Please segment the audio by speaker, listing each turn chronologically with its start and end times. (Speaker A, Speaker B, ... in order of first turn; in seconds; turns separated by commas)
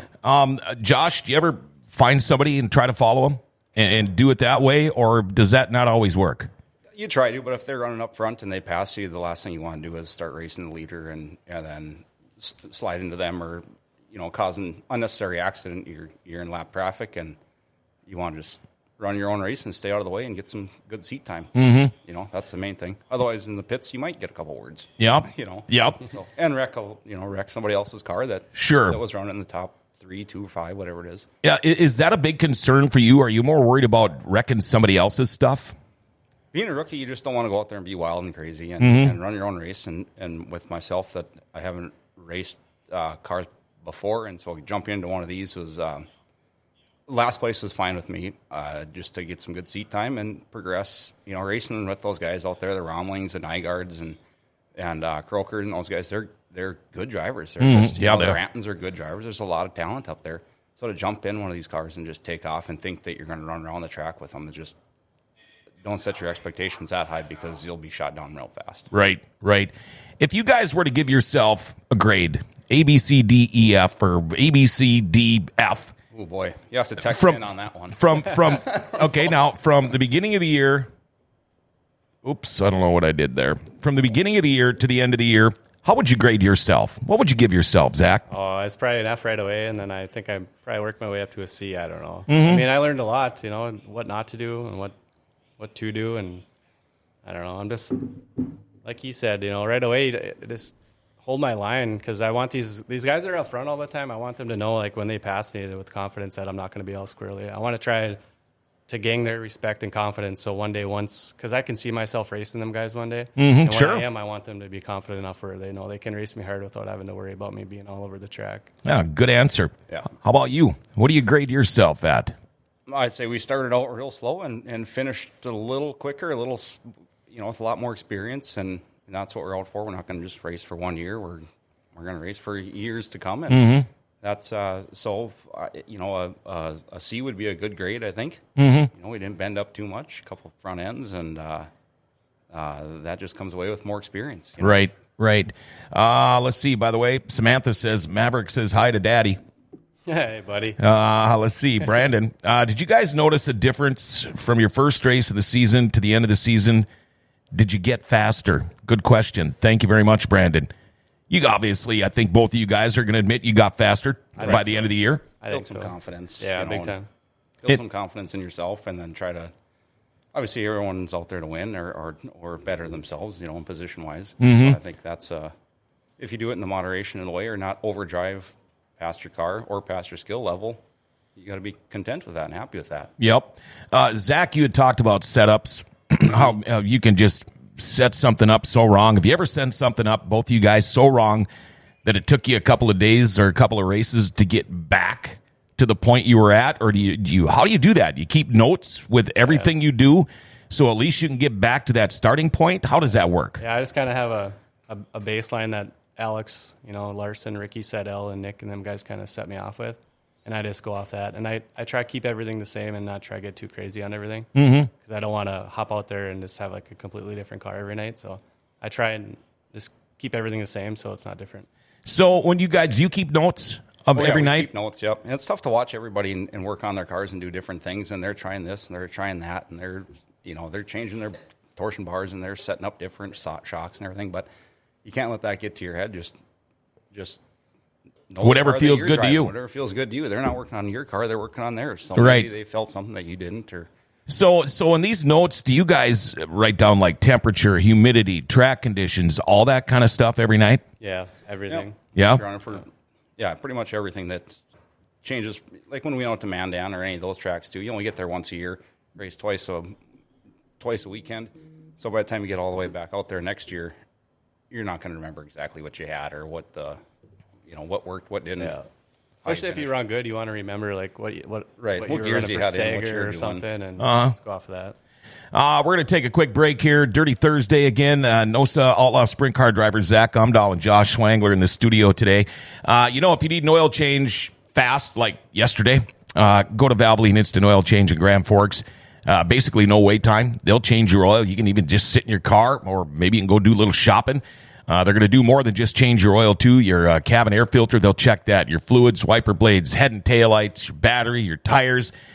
Speaker A: 0.2-6.5, Speaker B: 6.9-17.4, Speaker B: 18.1-31.3, Speaker A: 21.5-21.9, Speaker A: 25.0-26.1, Speaker A: 28.6-29.0, Speaker A: 31.4-35.7, Speaker B: 36.5-46.1, Speaker A: 38.8-39.2, Speaker B: 47.1-54.2, Speaker B: 54.8-64.7, Speaker A: 57.6-58.4, Speaker B: 65.8-68.9, Speaker A: 68.9-75.9, Speaker B: 76.1-79.1, Speaker A: 77.0-80.9, Speaker A: 82.2-88.2, Speaker C: 88.3-94.9, Speaker A: 92.3-92.7, Speaker C: 95.6-96.4, Speaker C: 97.2-108.2, Speaker C: 108.9-118.7, Speaker A: 113.4-114.0, Speaker A: 118.8-122.3, Speaker B: 122.9-141.7, Speaker A: 133.5-133.9, Speaker A: 138.6-138.9, Speaker B: 142.5-144.8, Speaker A: 144.6-149.4, Speaker C: 150.1-150.8, Speaker A: 150.8-156.9, Speaker A: 157.5-160.7, Speaker A: 161.3-165.2, Speaker C: 164.4-164.8, Speaker B: 164.4-164.9, Speaker C: 165.4-167.1, Speaker B: 165.5-166.9, Speaker B: 167.6-169.5, Speaker B: 170.3-175.5, Speaker A: 174.4-174.8, Speaker B: 176.2-180.8, Speaker B: 181.3-183.1, Speaker A: 183.2-191.5, Speaker A: 192.0-203.6, Speaker C: 203.6-221.7, Speaker A: 214.5-214.9, Speaker A: 222.0-224.7, Speaker B: 224.1-234.5, Speaker B: 235.0-236.4, Speaker B: 237.1-237.4, Speaker B: 238.3-243.9, Speaker A: 238.4-239.5, Speaker A: 242.2-242.5, Speaker A: 244.3-250.8, Speaker C: 251.0-251.9, Speaker B: 251.7-254.6, Speaker A: 252.2-252.4, Speaker B: 255.2-259.9, Speaker B: 260.8-263.9, Speaker B: 264.7-267.0, Speaker B: 267.6-268.7, Speaker C: 268.6-268.9, Speaker C: 269.4-274.9, Speaker B: 269.4-269.9, Speaker B: 271.8-273.6, Speaker A: 274.0-274.3, Speaker A: 275.5-302.1